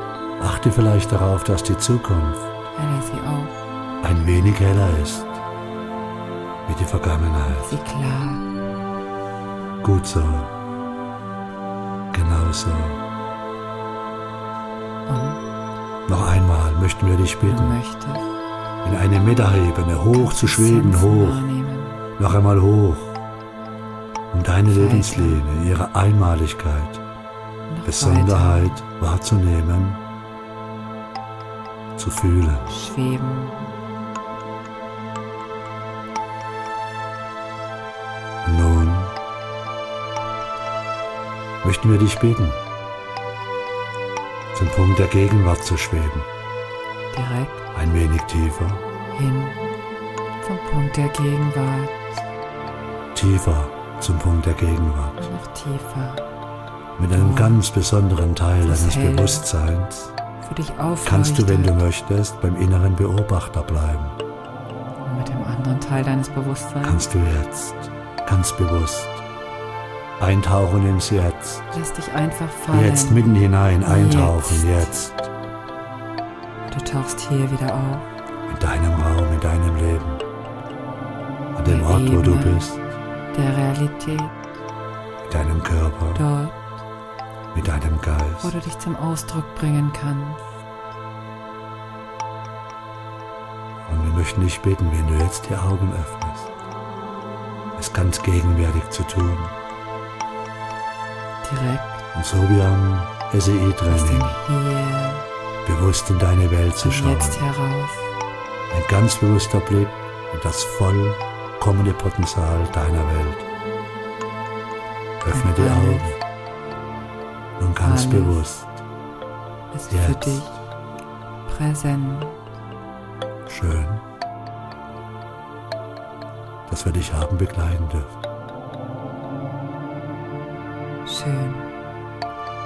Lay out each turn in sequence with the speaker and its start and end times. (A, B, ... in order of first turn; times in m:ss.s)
0:00.4-0:02.5 A
0:02.7-0:03.6 B
0:04.0-0:05.4 A
0:06.7-0:07.8 A
0:07.5-0:08.5 B
0:09.8-0:10.5 A
0:12.1-0:13.0 A
0:15.1-0:15.4 B
0:16.1-0:17.8 A
0:17.4-0:18.3 B
0:18.8-0:21.4 A
0:20.1-0:22.0 B
0:22.2-0:23.2 A
0:24.3-0:27.0 A
0:24.7-0:25.5 B
0:27.7-0:28.8 B
0:27.8-0:30.0 A
0:32.0-0:32.7 A
0:32.7-0:33.8 B
0:38.4-0:39.2 A
0:41.6-0:42.6 A
0:44.5-0:46.3 A
0:47.1-0:47.6 B
0:47.7-0:48.8 A
0:49.1-0:49.7 B
0:50.4-0:52.2 B
0:53.1-0:55.3 A
0:55.2-0:56.3 B
0:57.0-1:00.1 A
0:57.1-0:57.6 B
0:58.6-0:59.4 B
1:00.4-1:01.8 B
1:01.0-1:04.2 A
1:05.0-1:07.0 B
1:06.8-1:09.2 A
1:10.2-1:11.7 A
1:11.7-1:13.3 B
1:12.7-1:15.3 A
1:13.8-1:14.9 B
1:16.7-1:18.1 B
1:18.5-1:20.2 A
1:21.6-1:22.8 A
1:21.6-1:22.8 B
1:23.3-1:24.4 B
1:25.3-1:26.3 A
1:26.1-1:26.7 B
1:27.5-1:28.6 A
1:28.4-1:30.4 B
1:33.8-1:36.5 A
1:37.8-1:39.6 A
1:41.4-1:42.0 B
1:42.1-1:44.4 A
1:43.9-1:45.2 B
1:45.6-1:47.5 A
1:46.8-1:48.1 B
1:48.7-1:53.5 A
1:55.2-1:56.2 A
1:55.3-1:56.2 B
1:57.6-1:58.8 A
1:57.8-1:58.5 B
1:59.7-2:00.6 B
1:59.9-2:00.5 A
2:01.5-2:02.4 B
2:03.5-2:04.0 A
2:06.7-2:08.2 A
2:11.0-2:11.7 B